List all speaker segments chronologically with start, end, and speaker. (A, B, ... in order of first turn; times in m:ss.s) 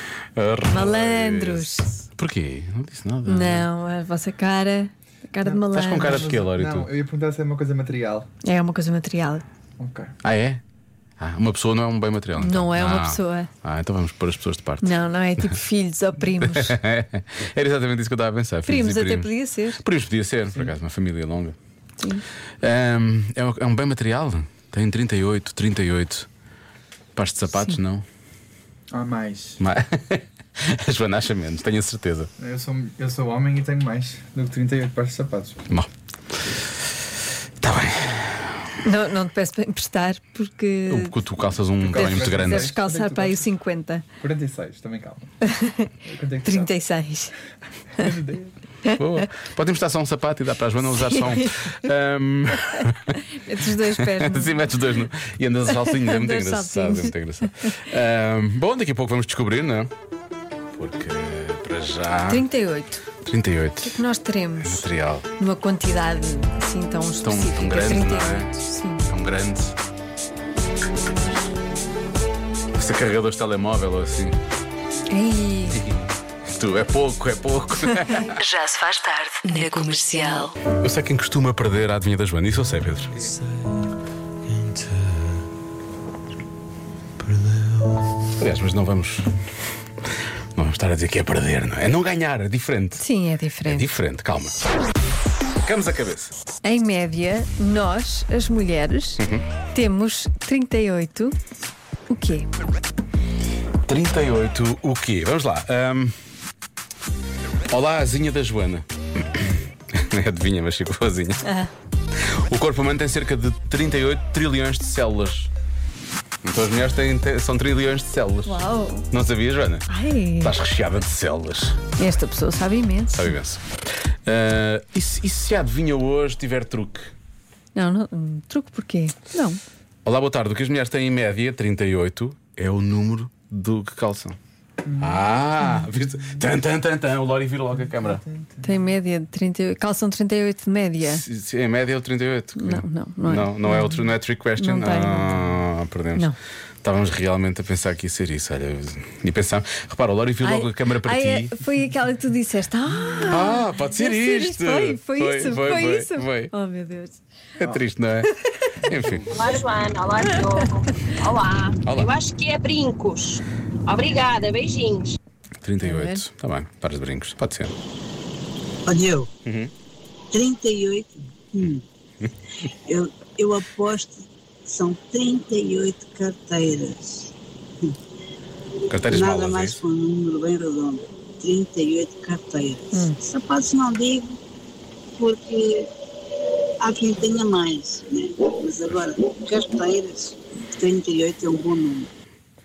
0:00.4-0:03.7 A
0:00.7-0:01.9 B
0:03.3-0:06.3 B
0:05.4-0:08.3 C
0:05.7-0:06.9 A
0:08.4-0:09.4 B
0:09.8-0:10.1 C
0:10.2-0:10.6 A
0:11.2-0:15.5 A
0:12.4-0:13.5 B
0:14.8-0:16.8 B
0:16.4-0:21.6 A
0:18.6-0:19.8 B
0:22.6-0:26.3 A
0:27.2-0:28.0 A
0:27.5-0:27.8 B
0:28.9-0:29.6 C
0:29.6-0:32.3 A
0:32.4-0:35.6 C
0:37.6-0:38.5 A
0:38.8-0:41.2 B
0:40.9-0:42.8 A
0:41.8-0:43.5 C
0:41.9-0:44.0 B
0:44.2-0:45.3 C
0:45.5-0:45.9 B
0:46.0-0:46.7 C
0:46.4-0:47.3 B
0:48.0-0:48.5 C
0:48.9-0:49.2 B
0:49.0-0:53.1 A
0:51.0-0:51.7 B
0:53.3-0:54.8 B
0:53.9-0:59.9 A
0:55.7-0:57.8 B
1:00.8-1:02.5 A
1:02.3-1:03.0 B
1:03.3-1:04.0 A
1:03.8-1:04.8 B
1:04.6-1:05.3 A
1:05.4-1:09.1 B
1:07.2-1:09.8 A
1:12.8-1:14.4 A
1:15.1-1:15.8 B
1:16.5-1:18.4 A
1:18.4-1:20.5 D
1:19.5-1:20.5 B
1:20.7-1:23.3 A
1:28.4-1:29.3 A
1:30.6-1:33.0 A
1:33.0-1:34.0 B
1:33.7-1:34.6 A
1:35.6-1:36.3 A
1:36.6-1:39.2 B
1:39.2-1:39.4 A
1:39.7-1:41.4 B
1:42.1-1:42.5 B
1:43.9-1:46.2 A
1:47.7-1:51.5 A
1:51.4-1:51.7 B
1:52.4-1:55.5 A
1:56.4-1:59.8 A
1:58.4-1:59.1 B
1:59.9-2:00.6 B
2:00.4-2:01.8 A
2:02.0-2:03.3 B
2:03.1-2:03.6 A
2:04.3-2:07.1 A
2:07.8-2:09.6 B
2:10.0-2:14.4 A
2:14.8-2:15.6 C
2:15.0-2:18.2 A
2:18.0-2:18.6 C
2:18.6-2:21.2 B
2:21.0-2:26.3 A
2:22.6-2:25.5 B
2:26.8-2:31.5 A
2:30.4-2:37.2 B
2:33.3-2:36.5 A
2:37.6-2:38.3 A
2:38.9-2:39.4 A
2:39.0-2:39.6 C
2:39.3-2:45.2 E
2:41.8-2:42.2 A
2:45.6-2:47.8 A
2:45.8-2:46.2 B
2:48.9-2:49.3 F
2:49.4-2:49.7 A
2:50.3-2:51.8 F
2:52.9-2:57.3 F
2:58.9-2:59.9 A
2:59.1-3:04.4 F
3:02.9-3:03.2 B
3:05.2-3:05.9 F
3:06.8-3:12.1 F